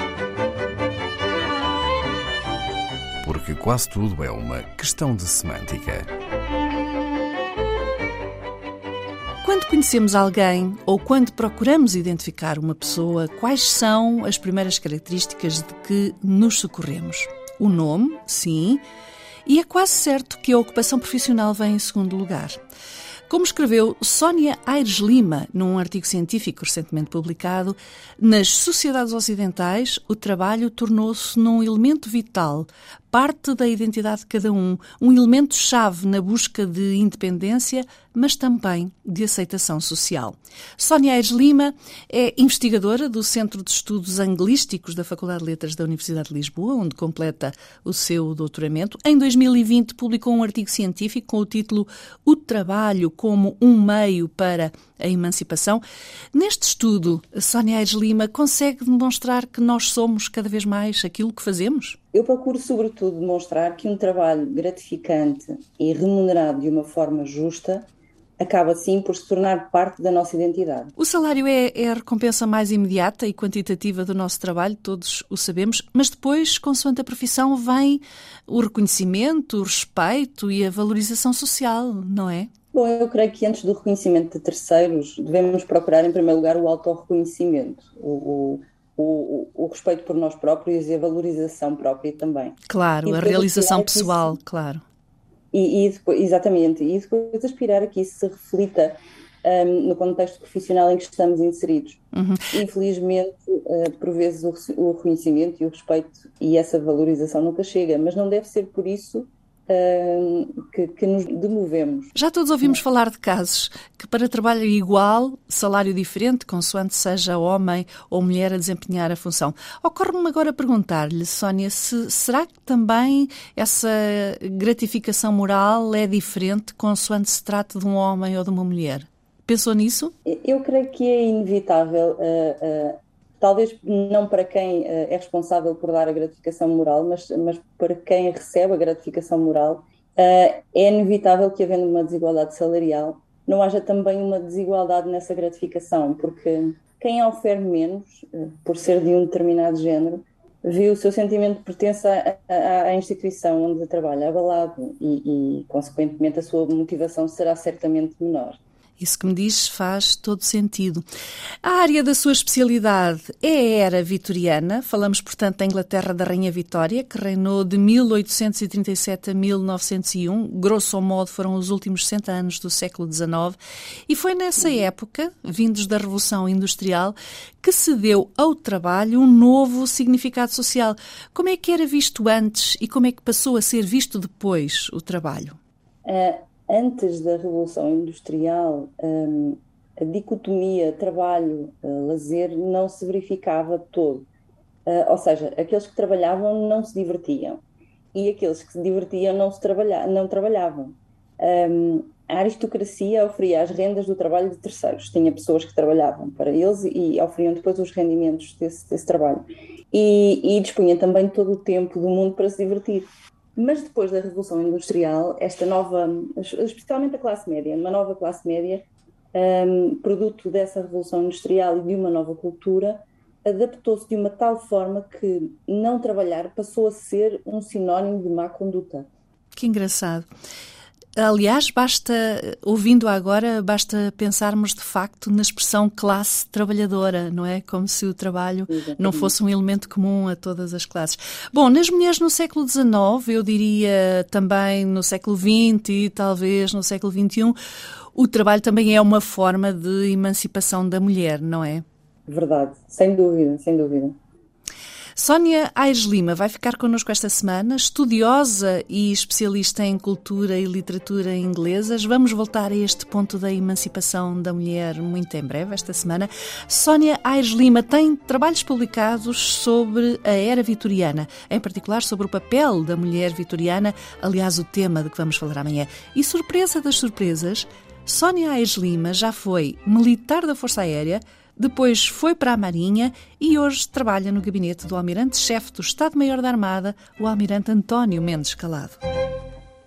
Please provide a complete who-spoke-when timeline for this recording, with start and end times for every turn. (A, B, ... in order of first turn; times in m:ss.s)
0:03.2-0:06.1 A
0:09.4-0:18.8 B
0:19.5-0:22.6 B
0:23.3-0:55.8 B
0:56.3-1:02.0 B
1:02.1-1:07.9 C
1:08.4-1:11.0 C
1:11.0-1:22.5 B
1:22.7-1:34.4 C
1:32.7-1:34.8 B
1:35.5-1:42.0 C
1:42.1-1:42.5 B
1:42.5-1:52.1 C
1:52.2-2:10.1 B
2:10.3-2:38.6 C
2:39.0-2:41.0 B
2:41.6-2:53.6 B
2:54.1-3:05.6 B
3:06.0-3:14.3 C
3:14.9-3:17.6 C
3:18.1-3:49.1 C
3:49.5-3:50.3 B
3:51.2-4:07.6 B
3:58.7-3:59.3 C
4:08.1-4:11.8 B
4:12.3-4:14.2 C
4:15.2-4:49.0 B